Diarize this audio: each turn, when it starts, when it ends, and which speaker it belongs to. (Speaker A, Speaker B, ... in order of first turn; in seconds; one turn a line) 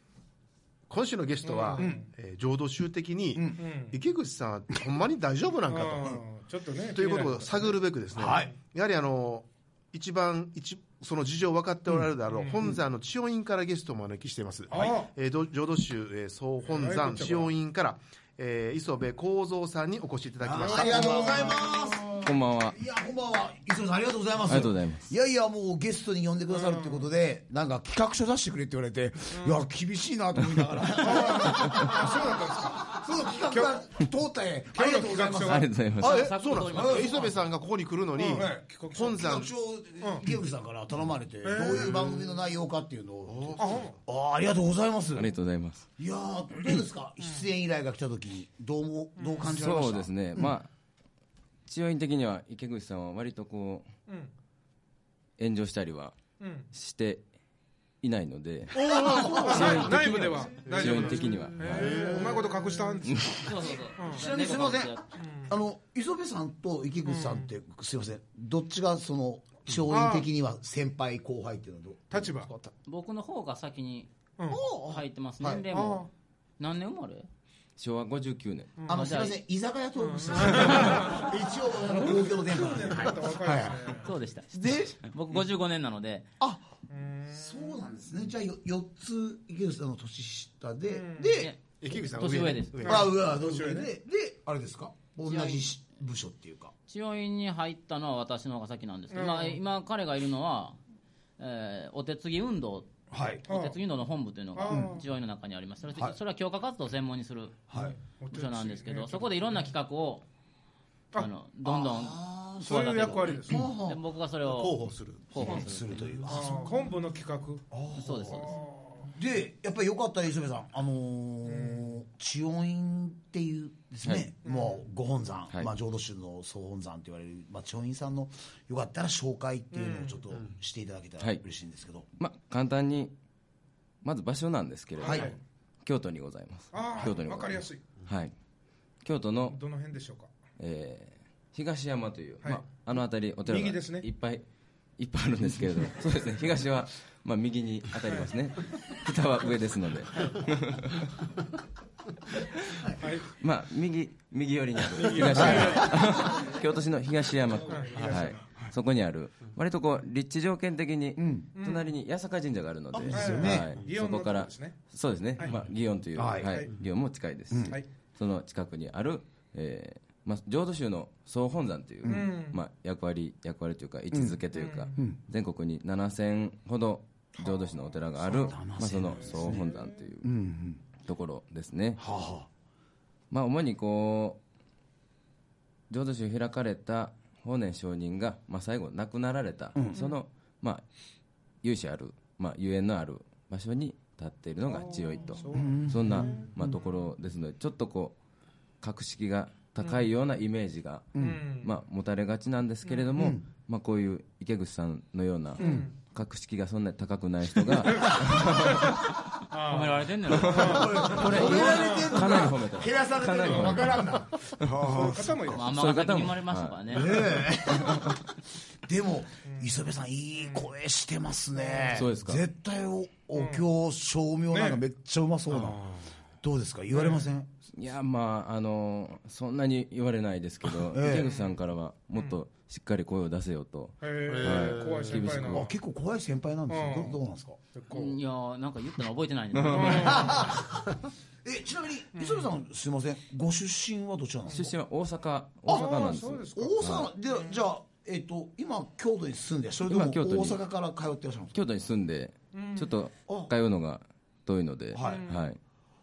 Speaker A: 0.9-6.2
Speaker B: 1.4-2.1
Speaker B: 3.6-4.0
Speaker B: 5.7-7.8
Speaker A: 6.8-21.6
Speaker C: 8.1-8.5
Speaker B: 12.3-12.7
Speaker B: 14.7-15.1
Speaker B: 16.7-17.5
Speaker C: 20.4-35.7
Speaker B: 20.6-22.2
Speaker D: 22.2-22.8
Speaker D: 24.5-25.1
Speaker B: 26.5-27.0
Speaker B: 29.3-29.6
Speaker B: 30.9-32.9
Speaker B: 33.5-33.7
Speaker B: 34.7-35.7
Speaker D: 35.4-36.3
Speaker E: 36.0-37.4
Speaker A: 36.0-39.5
Speaker C: 36.7-37.1
Speaker B: 38.2-39.2
Speaker C: 38.2-45.3
Speaker B: 40.0-40.2
Speaker B: 41.4-42.3
Speaker A: 43.3-44.0
Speaker B: 43.6-44.0
Speaker D: 45.1-45.9
Speaker C: 46.0-50.4
Speaker B: 49.2-49.5
Speaker D: 49.5-50.7
Speaker D: 51.7-53.9
Speaker B: 54.1-54.3
Speaker D: 55.4-57.2
Speaker B: 56.4-56.7
Speaker D: 58.0-62.1
Speaker B: 58.7-64.2
Speaker C: 58.9-60.0
Speaker A: 61.7-62.7
Speaker D: 63.0-63.4
Speaker E: 63.4-65.0
Speaker C: 63.6-72.3
Speaker B: 65.2-65.5
Speaker B: 67.0-67.5
Speaker B: 69.9-70.3
Speaker B: 72.1-72.5
Speaker A: 72.4-72.7
Speaker E: 72.8-74.1
Speaker B: 74.4-74.6
Speaker C: 74.5-75.6
Speaker E: 74.8-77.3
Speaker B: 75.7-76.1
Speaker D: 77.8-78.7
Speaker B: 78.8-79.0
Speaker C: 78.8-84.0
Speaker E: 78.9-79.4
Speaker B: 80.0-81.3
Speaker B: 82.0-84.1
Speaker E: 84.0-86.3
Speaker C: 84.5-85.0
Speaker C: 86.4-86.7
Speaker B: 86.9-87.8
Speaker C: 87.3-91.5
Speaker B: 90.9-91.4
Speaker E: 91.3-93.1
Speaker A: 91.8-93.1
Speaker C: 92.8-96.7
Speaker B: 92.9-93.9
Speaker E: 95.2-95.7
Speaker E: 96.9-100.8
Speaker B: 99.1-99.6
Speaker E: 101.4-102.9
Speaker C: 103.1-103.4
Speaker E: 103.4-107.6
Speaker B: 103.5-103.8
Speaker B: 104.5-105.0
Speaker C: 104.7-105.0
Speaker C: 107.7-108.0
Speaker B: 107.8-109.7
Speaker E: 108.3-110.3
Speaker E: 111.1-114.8
Speaker C: 111.6-114.0
Speaker B: 112.6-113.7
Speaker A: 114.4-115.5
Speaker E: 115.3-116.7
Speaker C: 115.3-116.8
Speaker B: 116.3-117.7
Speaker C: 117.7-118.5
Speaker E: 117.9-118.5
Speaker B: 118.3-119.1
Speaker C: 119.1-132.1
Speaker B: 121.5-121.9
Speaker D: 124.0-124.3
Speaker B: 124.4-124.8
Speaker B: 129.7-130.2
Speaker D: 132.2-133.1
Speaker D: 134.0-138.3
Speaker B: 135.0-135.4
Speaker C: 135.0-135.3
Speaker B: 136.7-137.9
Speaker D: 139.0-139.6
Speaker B: 139.5-140.3
Speaker D: 140.6-144.4
Speaker B: 142.4-142.7
Speaker B: 143.4-144.1
Speaker D: 145.0-151.1
Speaker D: 152.6-180.4
Speaker B: 153.0-153.3
Speaker B: 154.9-156.5
Speaker C: 155.3-155.9
Speaker B: 157.7-158.6
Speaker C: 161.2-161.5
Speaker B: 161.6-161.8
Speaker C: 162.9-163.7
Speaker B: 163.1-164.8
Speaker C: 166.2-166.6
Speaker B: 166.4-166.7
Speaker C: 167.5-167.8
Speaker C: 172.0-172.3
Speaker B: 172.0-172.6
Speaker C: 174.1-174.4
Speaker B: 174.5-175.0
Speaker B: 177.4-177.7
Speaker C: 178.2-179.7
Speaker B: 179.2-179.9
Speaker C: 180.2-180.8
Speaker D: 181.0-182.0
Speaker C: 182.0-182.5
Speaker D: 183.3-184.4
Speaker D: 185.9-190.8
Speaker C: 189.8-190.0
Speaker D: 191.6-198.2
Speaker B: 194.7-196.5
Speaker C: 195.5-196.8
Speaker D: 198.8-209.1
Speaker C: 201.1-201.4
Speaker B: 201.2-201.7
Speaker C: 203.2-203.4
Speaker B: 205.6-205.9
Speaker C: 205.6-205.9
Speaker B: 207.7-212.4
Speaker E: 209.6-211.3
Speaker D: 210.3-218.2
Speaker C: 210.5-215.6
Speaker B: 213.4-214.0
Speaker B: 214.8-215.7
Speaker E: 215.5-217.3
Speaker C: 216.9-227.5
Speaker B: 219.5-219.7
Speaker B: 221.6-222.0
Speaker D: 221.9-222.4
Speaker B: 223.3-223.7
Speaker B: 224.5-224.8
Speaker B: 225.6-225.9
Speaker B: 226.9-227.2
Speaker D: 227.7-235.7
Speaker C: 230.9-231.3
Speaker B: 231.1-231.5
Speaker B: 234.0-235.7
Speaker A: 234.2-235.4
Speaker C: 235.5-237.6
Speaker B: 236.7-237.2
Speaker B: 237.7-238.2
Speaker E: 237.9-240.5
Speaker D: 239.6-239.9
Speaker B: 239.7-240.4
Speaker C: 239.8-244.7
Speaker B: 242.2-242.5
Speaker D: 244.5-247.1
Speaker C: 245.7-251.6
Speaker B: 245.7-246.9
Speaker D: 249.9-250.6
Speaker D: 251.5-255.6
Speaker B: 252.5-252.9
Speaker C: 254.9-255.3
Speaker B: 255.0-255.4